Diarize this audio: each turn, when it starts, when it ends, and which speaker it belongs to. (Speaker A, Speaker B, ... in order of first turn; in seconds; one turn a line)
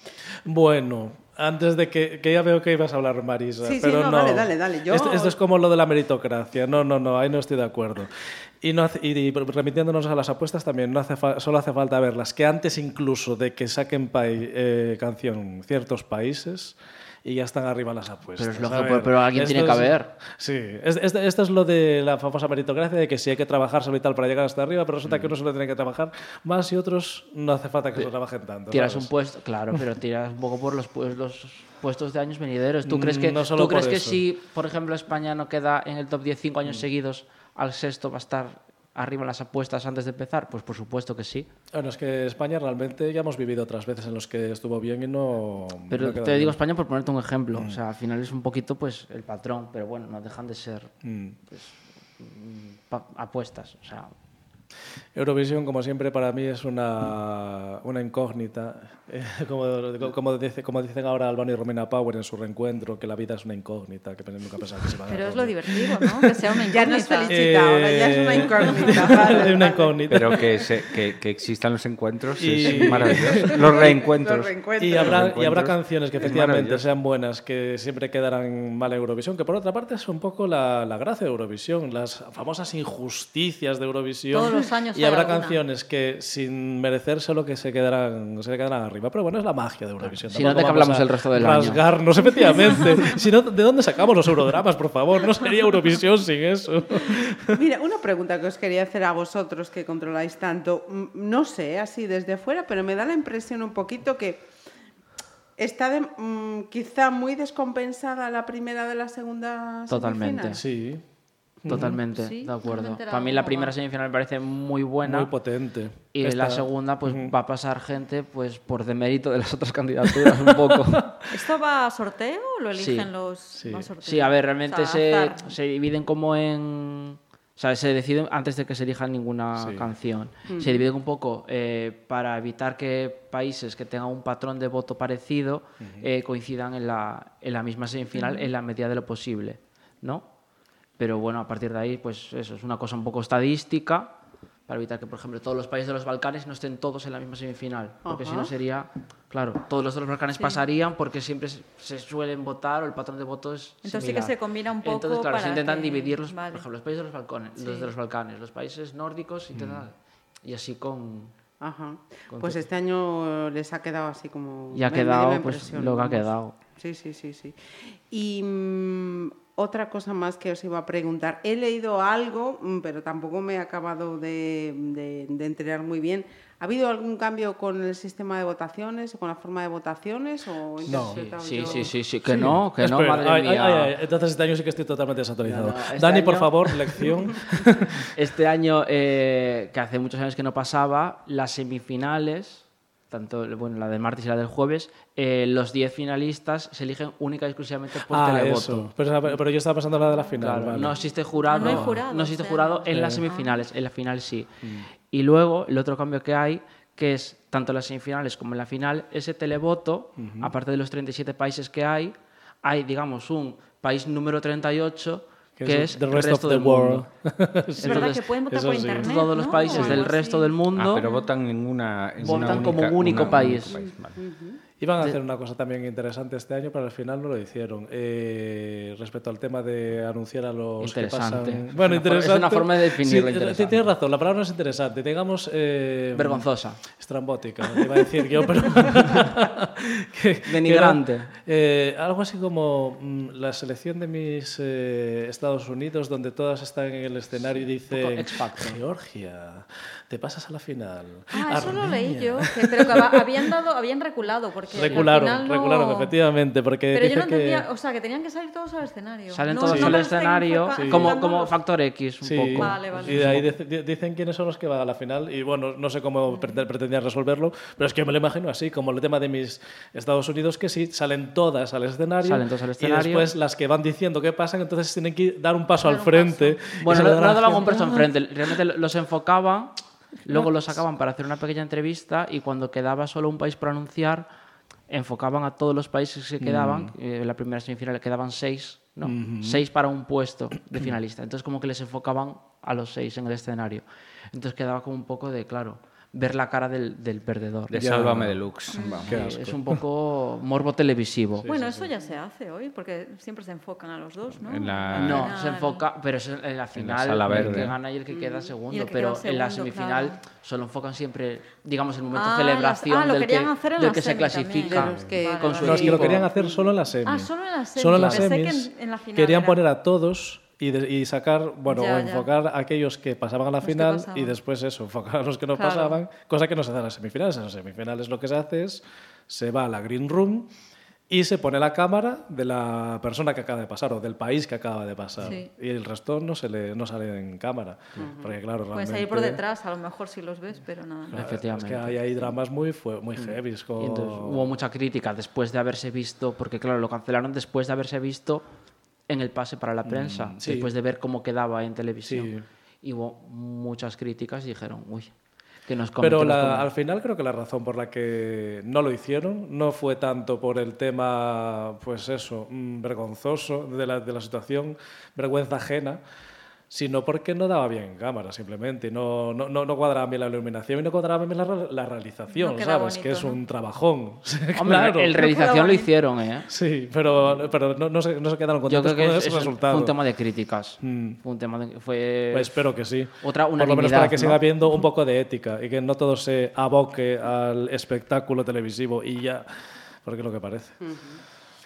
Speaker A: 0.5-29.1
Speaker B: 3.6-5.4
Speaker C: 18.4-20.1
Speaker C: 28.7-41.5
Speaker A: 32.9-34.2
Speaker A: 41.7-46.6
Speaker C: 45.9-51.0
Speaker A: 51.0-51.4
Speaker C: 51.5-54.1
Speaker A: 55.1-66.4
Speaker D: 65.1-67.5
Speaker B: 66.7-70.7
Speaker A: 67.3-70.4
Speaker E: 70.1-76.9
Speaker A: 72.4-73.6
Speaker B: 72.8-75.2
Speaker A: 74.8-97.6
Speaker D: 84.3-85.6
Speaker C: 90.3-91.8
Speaker B: 97.5-104.5
Speaker B: 105.6-110.6
Speaker C: 109.9-110.6
Speaker A: 110.6-111.0
Speaker A: 111.6-112.0
Speaker C: 111.7-115.3
Speaker D: 112.1-113.8
Speaker A: 115.0-117.3
Speaker C: 116.1-121.0
Speaker D: 121.3-125.5
Speaker C: 122.8-123.1
Speaker A: 123.5-123.9
Speaker C: 124.0-140.3
Speaker A: 129.6-129.8
Speaker B: 130.5-130.9
Speaker A: 135.8-136.1
Speaker D: 138.2-138.5
Speaker C: 141.0-144.2
Speaker C: 144.7-161.3
Speaker B: 148.1-148.5
Speaker D: 153.8-156.7
Speaker D: 157.6-157.9
Speaker A: 159.6-159.8
Speaker B: 161.6-182.0
Speaker C: 162.3-162.6
Speaker C: 164.7-166.6
Speaker A: 180.9-181.3
Speaker C: 180.9-183.9
Speaker A: 182.2-188.1
Speaker C: 185.4-187.0
Speaker C: 188.2-199.4
Speaker A: 198.1-202.0
Speaker C: 200.4-204.5
Speaker D: 201.5-203.6
Speaker A: 202.9-203.2
Speaker C: 205.1-217.1
Speaker A: 210.2-210.5
Speaker A: 215.6-220.1
Speaker C: 217.8-218.3
Speaker D: 217.8-221.3
Speaker C: 218.9-221.1
Speaker E: 220.8-224.2
Speaker C: 222.2-223.8
Speaker B: 223.1-224.6
Speaker A: 224.8-253.3
Speaker C: 230.8-233.8
Speaker C: 236.2-236.8
Speaker C: 240.5-241.3
Speaker C: 247.9-248.8
Speaker D: 251.3-256.1
Speaker A: 254.7-257.6
Speaker C: 254.9-255.1
Speaker D: 256.9-261.6
Speaker C: 259.3-263.5
Speaker A: 259.7-260.1
Speaker A: 260.8-261.1
Speaker A: 262.2-278.0
Speaker D: 262.6-263.4
Speaker D: 266.3-266.6
Speaker C: 272.2-273.3
Speaker D: 275.8-278.0
Speaker C: 276.8-284.3
Speaker A: 280.3-280.6
Speaker C: 284.9-297.8
Speaker A: 286.4-286.9
Speaker A: 289.1-289.6
Speaker E: 297.7-299.1
Speaker A: 297.8-298.4
Speaker D: 298.7-299.1
Speaker A: 299.1-299.8
Speaker C: 299.1-301.5
Speaker A: 301.4-301.9
Speaker D: 301.5-305.8
Speaker E: 304.4-305.3
Speaker C: 304.9-316.3
Speaker E: 306.8-307.8
Speaker A: 307.3-307.7
Speaker B: 308.1-308.5
Speaker D: 308.7-310.2
Speaker D: 312.1-316.1
Speaker B: 314.7-316.7
Speaker A: 315.6-330.5
Speaker D: 317.1-319.6
Speaker C: 317.9-318.3
Speaker D: 321.7-322.3
Speaker D: 323.6-324.4
Speaker D: 325.5-326.0
Speaker A: 331.1-339.4
Speaker D: 335.2-335.5
Speaker B: 338.0-338.4
Speaker D: 338.7-341.3
Speaker A: 341.1-344.5
Speaker C: 341.1-342.4
Speaker C: 343.2-348.5
Speaker C: 349.1-352.3
Speaker A: 349.9-350.7
Speaker A: 352.1-352.4
Speaker C: 352.8-355.1
Speaker C: 355.7-356.7
Speaker A: 356.0-366.0
Speaker A: 366.7-375.2
Speaker D: 372.3-373.4
Speaker C: 374.6-376.5
Speaker D: 375.1-375.9
Speaker A: 376.5-380.0
Speaker C: 378.7-382.7
Speaker A: 380.8-381.2
Speaker A: 382.3-389.5
Speaker C: 383.2-384.4
Speaker A: 390.0-390.8
Speaker B: 390.8-391.2